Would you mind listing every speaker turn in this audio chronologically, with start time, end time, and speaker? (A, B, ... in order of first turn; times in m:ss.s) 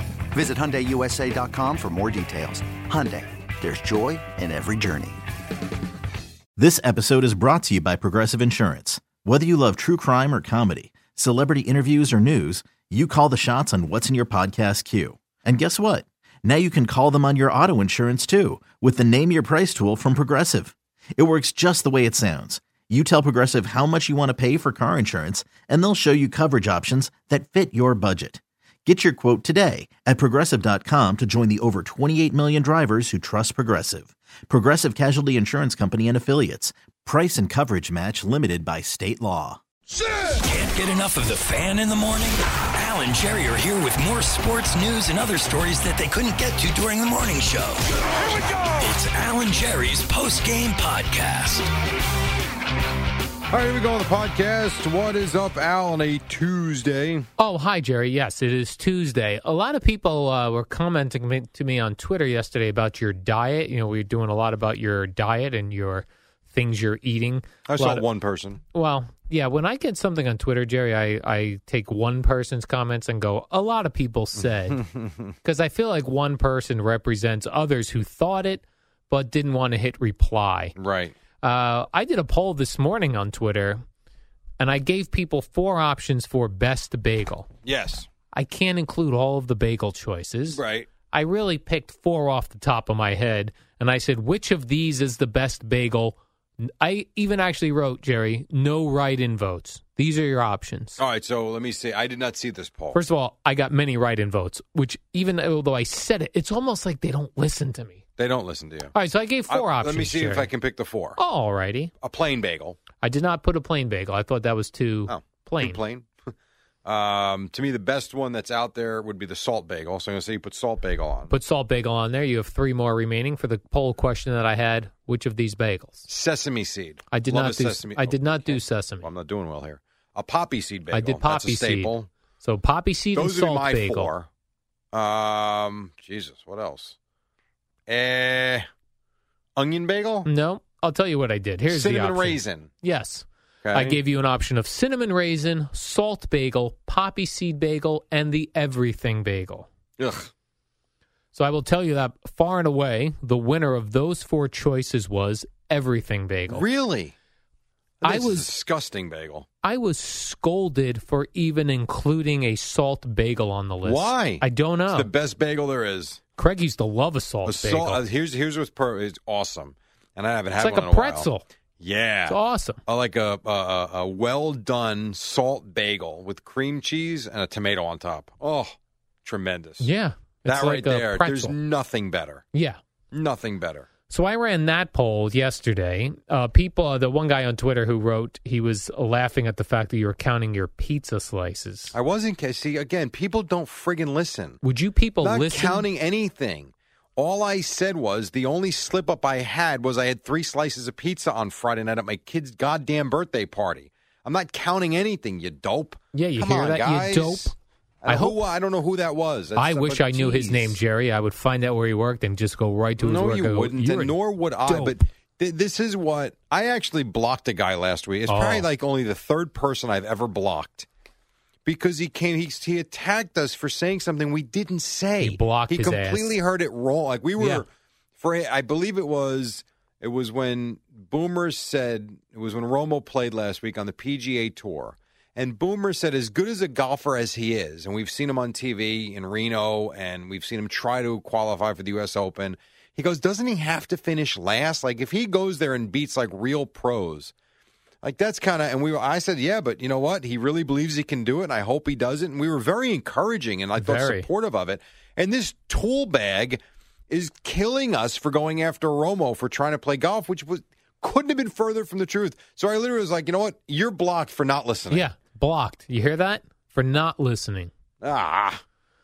0:00.3-0:05.2 A
0:06.6-0:39.6 B
0:40.4-0:51.7 C
0:53.5-0:57.3 D
0:57.4-1:08.0 E
1:07.6-1:08.6 D
1:08.7-1:14.8 E
1:14.7-1:15.3 D
1:15.4-1:20.7 E
1:20.8-1:21.1 D
1:21.4-1:23.8 E
1:24.6-1:27.5 E
1:27.6-1:28.1 D
1:28.3-1:41.0 E
1:30.5-1:30.9 D
1:41.0-1:43.0 D
1:42.9-1:48.0 E
1:48.2-1:48.9 D
1:48.9-1:50.5 E
1:49.5-1:51.2 D
1:51.2-1:51.9 E
1:52.0-1:52.8 D
1:53.0-1:55.8 E
1:55.1-1:56.3 D
1:56.8-2:01.3 D
2:01.3-2:06.0 E
2:06.1-2:12.1 D
2:07.1-2:09.1 E
2:10.9-2:14.1 E
2:13.1-2:14.3 D
2:14.9-2:17.0 D
2:17.9-2:18.6 D
2:19.6-2:20.3 D
2:20.2-2:29.7 E
2:21.7-2:22.7 D
2:23.6-2:24.0 D
2:30.0-2:30.3 D
2:31.3-2:36.6 E
2:36.5-2:37.1 D
2:38.0-2:39.5 D
2:38.0-2:38.5 E
2:39.6-2:45.1 E
2:43.8-2:46.2 D
2:46.4-2:48.0 E
2:47.4-2:51.3 D
2:50.6-2:51.4 E
2:51.8-2:59.9 D
2:52.3-2:52.8 E
2:59.8-3:01.5 E
3:00.4-3:02.4 D
3:02.5-3:02.8 E
3:03.1-3:03.9 D
3:04.1-3:11.9 E
3:11.9-3:14.6 D
3:14.6-3:15.9 E
3:15.2-3:30.8 D
3:26.1-3:27.5 E
3:28.1-3:28.4 E
3:29.6-3:34.9 E
3:33.0-3:40.9 D
3:38.3-3:38.7 E
3:41.6-3:47.7 D
3:45.2-3:46.2 E
3:47.4-3:47.6 E
3:48.2-4:07.3 D
4:08.0-4:25.1 D
4:13.8-4:14.2 E
4:24.9-4:27.7 E
4:28.0-4:28.6 D